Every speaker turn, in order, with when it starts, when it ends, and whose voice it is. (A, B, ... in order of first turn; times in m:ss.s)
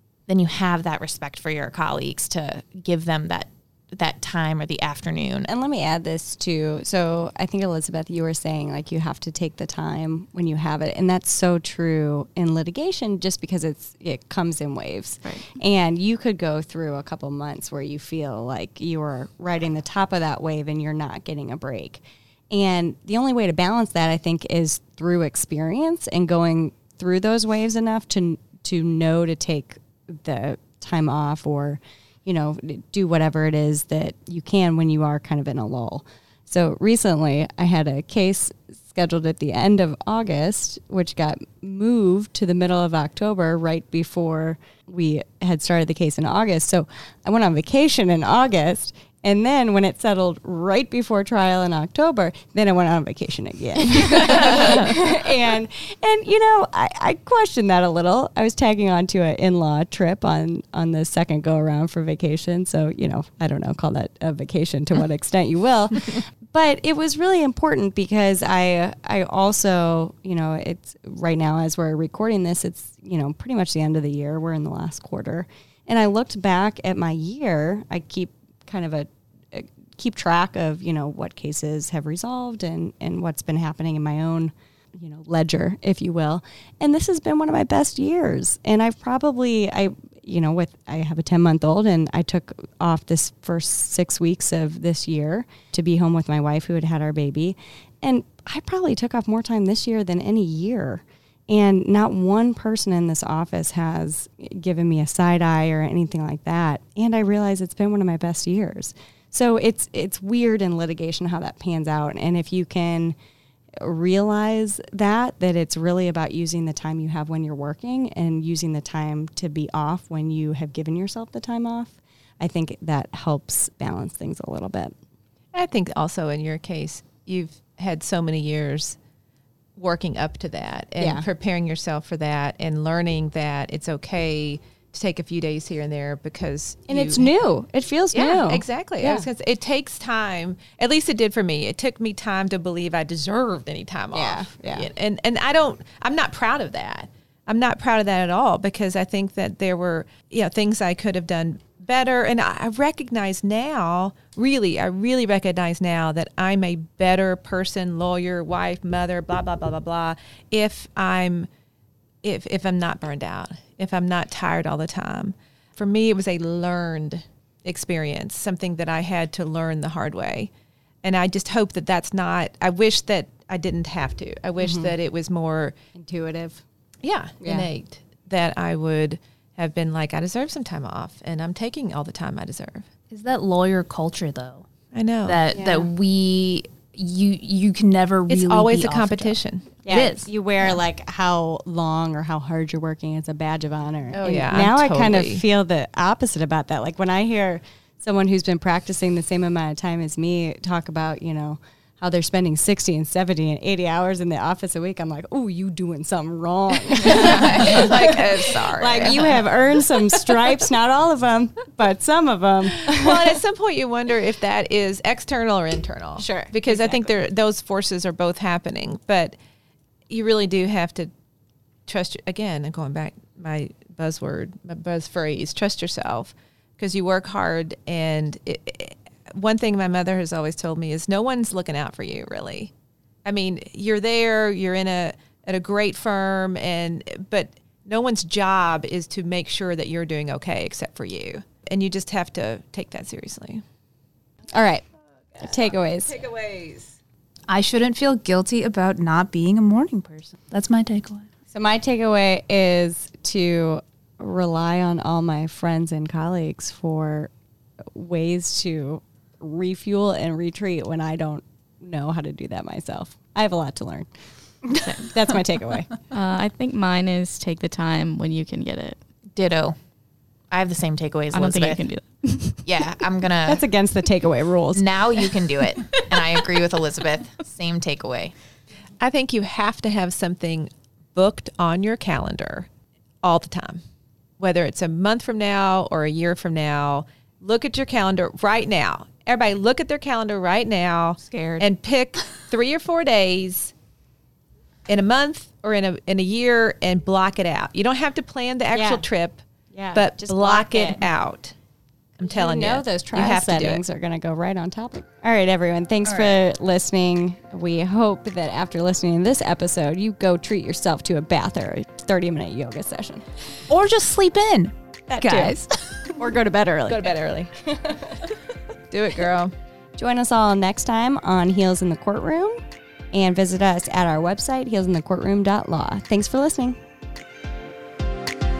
0:00.3-0:05.5 A
0:05.5-1:53.2 B
0:15.2-0:15.5 C
1:53.8-2:04.9 B
2:05.5-2:09.0 D
2:09.8-2:17.3 D
2:11.0-2:11.2 B
2:16.9-2:19.2 B
2:18.1-2:41.5 D
2:24.1-2:24.9 B
2:42.2-2:50.5 D
2:51.0-2:55.7 D
2:54.6-2:54.9 B
2:55.9-2:56.6 B
2:57.0-3:02.8 D
2:57.4-2:57.7 B
3:03.1-3:04.6 E
3:04.9-3:05.4 D
3:05.2-3:10.3 E
3:05.5-3:05.9 B
3:08.3-3:09.8 D
3:09.8-3:33.4 B
3:14.1-3:15.4 D
3:27.5-3:29.4 D
3:32.9-3:39.3 D
3:36.2-3:37.0 B
3:40.1-3:41.1 D
3:41.9-3:52.7 D
3:53.2-4:03.6 D
4:04.5-4:04.8 B
4:05.4-4:06.1 B
4:05.4-4:07.0 D
4:07.5-4:11.2 E
4:11.5-4:17.3 B
4:17.9-4:24.2 B
4:24.8-4:25.1 C
4:25.1-4:25.9 B
4:26.1-4:29.0 C
4:29.3-4:29.7 A
4:30.5-4:31.8 A
4:31.3-4:32.7 C
4:32.6-4:33.6 A
4:33.4-4:35.4 B
4:34.7-4:38.3 A
4:39.0-4:42.7 D
4:43.2-4:43.8 D
4:44.4-4:53.7 D
4:54.9-4:59.4 D
4:58.7-4:59.0 B
4:59.7-5:01.1 B
4:59.9-5:01.5 D
5:02.2-5:03.8 D
5:02.2-5:13.2 B
5:06.1-5:06.4 E
5:13.7-5:15.6 E
5:15.1-5:15.6 B
5:16.2-5:18.2 B
5:16.9-5:17.5 D
5:18.9-5:19.5 D
5:20.0-5:22.6 B
5:23.1-5:26.8 B